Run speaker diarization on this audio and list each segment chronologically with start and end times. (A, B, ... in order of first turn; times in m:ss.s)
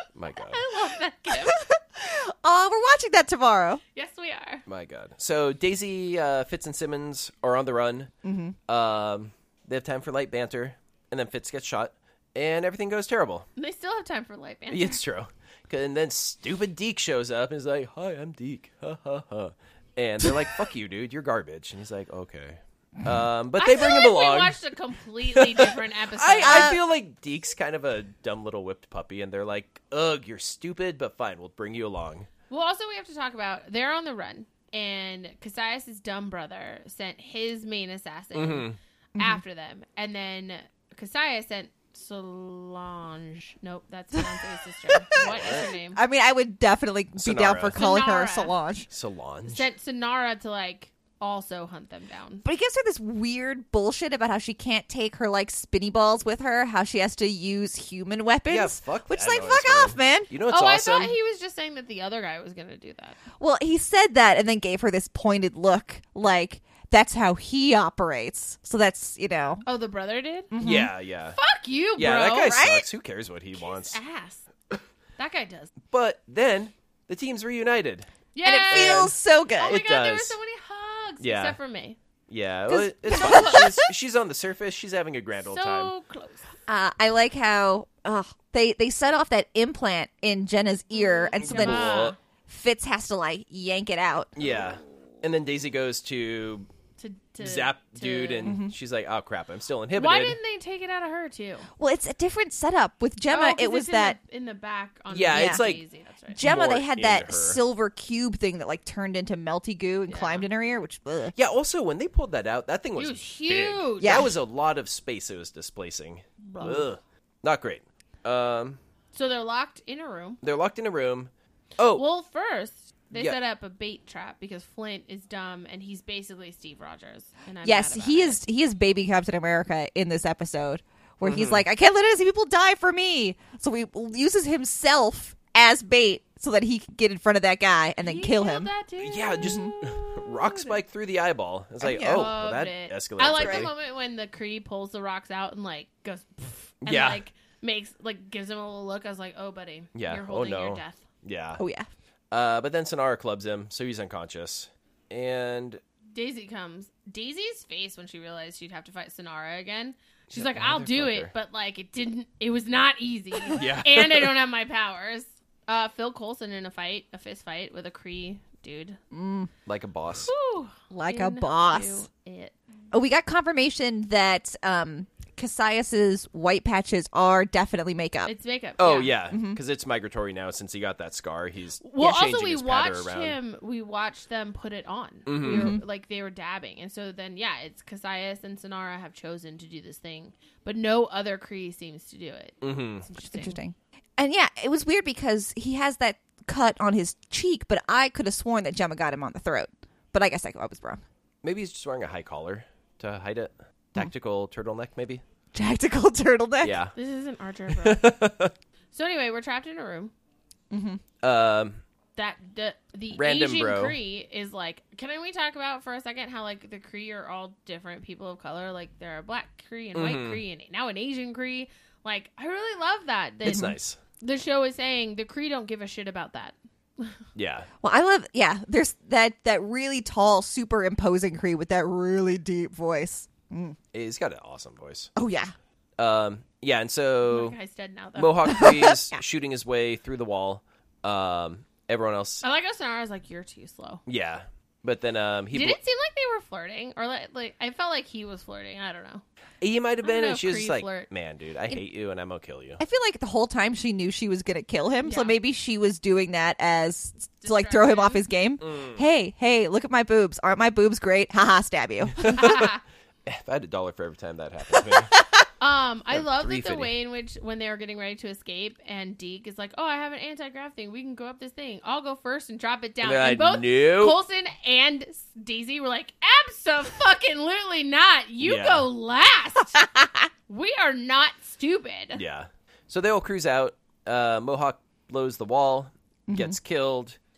0:00.1-0:00.6 A
0:00.5-0:01.6 B
0:01.3-0:03.8 C
0:03.9-0:04.6 B
0:04.7-0:08.1 A
0:08.2-0:08.6 C
0:08.7-0:13.5 A
0:13.6-0:15.0 B
0:14.7-0:24.6 A
0:23.6-0:26.8 B
0:25.3-0:32.3 A
0:26.4-0:26.8 C
0:32.5-0:46.0 B
0:38.3-0:38.8 A
0:39.2-0:39.4 C
0:44.9-0:48.9 C
0:45.2-0:45.7 A
0:47.2-0:47.9 A
0:47.7-0:48.5 B
0:48.9-0:49.6 A
0:49.4-0:52.4 B
0:52.4-1:00.3 C
0:58.5-1:01.1 A
1:00.5-1:03.2 B
1:03.4-1:09.6 C
1:09.6-1:10.5 B
1:10.5-1:10.9 C
1:10.6-1:11.4 A
1:11.4-1:12.7 B
1:12.0-1:14.0 A
1:12.5-1:12.8 C
1:13.6-1:14.4 B
1:15.2-1:15.7 B
1:15.9-1:18.1 A
1:18.3-1:22.0 B
1:18.4-1:19.8 C
1:18.7-1:20.4 A
1:21.2-1:21.6 A
1:22.3-1:25.9 A
1:22.7-1:23.8 C
1:23.1-1:23.8 B
1:25.4-1:26.5 B
1:26.7-1:34.4 C
1:30.9-1:32.2 B
1:31.4-1:32.1 A
1:34.4-1:36.7 A
1:34.4-1:35.0 B
1:37.0-1:38.6 B
1:37.4-1:40.4 A
1:38.4-1:38.7 C
1:39.9-1:41.7 B
1:41.8-1:44.2 C
1:43.3-1:46.4 B
1:45.1-1:45.8 A
1:45.3-1:45.6 C
1:46.3-1:51.3 C
1:46.4-1:47.6 A
1:50.1-1:50.4 B
1:51.3-1:58.8 A
1:53.0-1:54.3 B
1:54.0-1:54.3 C
1:56.4-1:56.9 B
1:59.1-2:00.4 B
2:00.4-2:02.0 A
2:01.9-2:08.4 B
2:07.6-2:18.7 C
2:11.2-2:11.6 A
2:18.0-2:20.8 B
2:19.0-2:23.7 A
2:19.4-2:19.7 C
2:21.8-2:22.3 C
2:22.0-2:31.0 B
2:23.3-2:23.7 C
2:26.8-2:27.2 A
2:29.9-2:31.6 A
2:31.6-2:31.9 C
2:32.3-2:35.8 A
2:36.1-2:49.0 B
2:40.3-2:41.3 A
2:43.5-2:44.3 A
2:49.1-2:49.5 C
2:49.6-2:50.3 A
2:50.2-2:52.6 B
2:50.9-2:52.1 C
2:52.9-2:58.3 C
2:58.3-2:59.1 B
2:58.8-3:03.4 A
2:59.3-2:59.6 C
3:01.8-3:13.6 B
3:05.3-3:05.7 A
3:05.4-3:05.8 C
3:12.6-3:13.0 A
3:13.2-3:21.0 C
3:21.4-3:25.2 A
3:25.5-3:26.8 C
3:26.6-3:26.9 A
3:26.9-3:28.0 B
3:27.8-3:28.5 A
3:28.9-3:30.1 B
3:30.7-3:31.0 C
3:31.2-3:31.8 A
3:32.2-3:47.2 B
3:33.1-3:34.0 A
3:39.9-3:40.4 A
3:43.4-3:44.0 A
3:43.5-3:43.7 C
3:47.3-3:47.7 A
3:47.8-3:53.8 C
3:53.9-3:55.1 A
3:55.2-3:55.5 C
3:56.0-3:57.6 A
3:57.3-3:58.7 B
3:58.2-4:02.4 A
3:58.5-3:59.2 C
4:02.4-4:04.0 B
4:04.1-4:05.8 A
4:05.5-4:09.2 B
4:09.6-4:12.8 A
4:10.0-4:11.1 B
4:12.8-4:22.6 C
4:15.0-4:15.3 B
4:17.4-4:18.2 B
4:18.6-4:19.0 A
4:22.2-4:22.7 A
4:22.4-4:22.8 B
4:23.3-4:25.1 A
4:24.7-4:25.2 C
4:25.6-4:39.8 B
4:26.1-4:26.9 A
4:33.0-4:34.2 A
4:38.4-4:38.9 A
4:39.8-4:40.3 C
4:40.5-4:42.2 B
4:42.1-4:47.2 A
4:46.3-4:46.6 C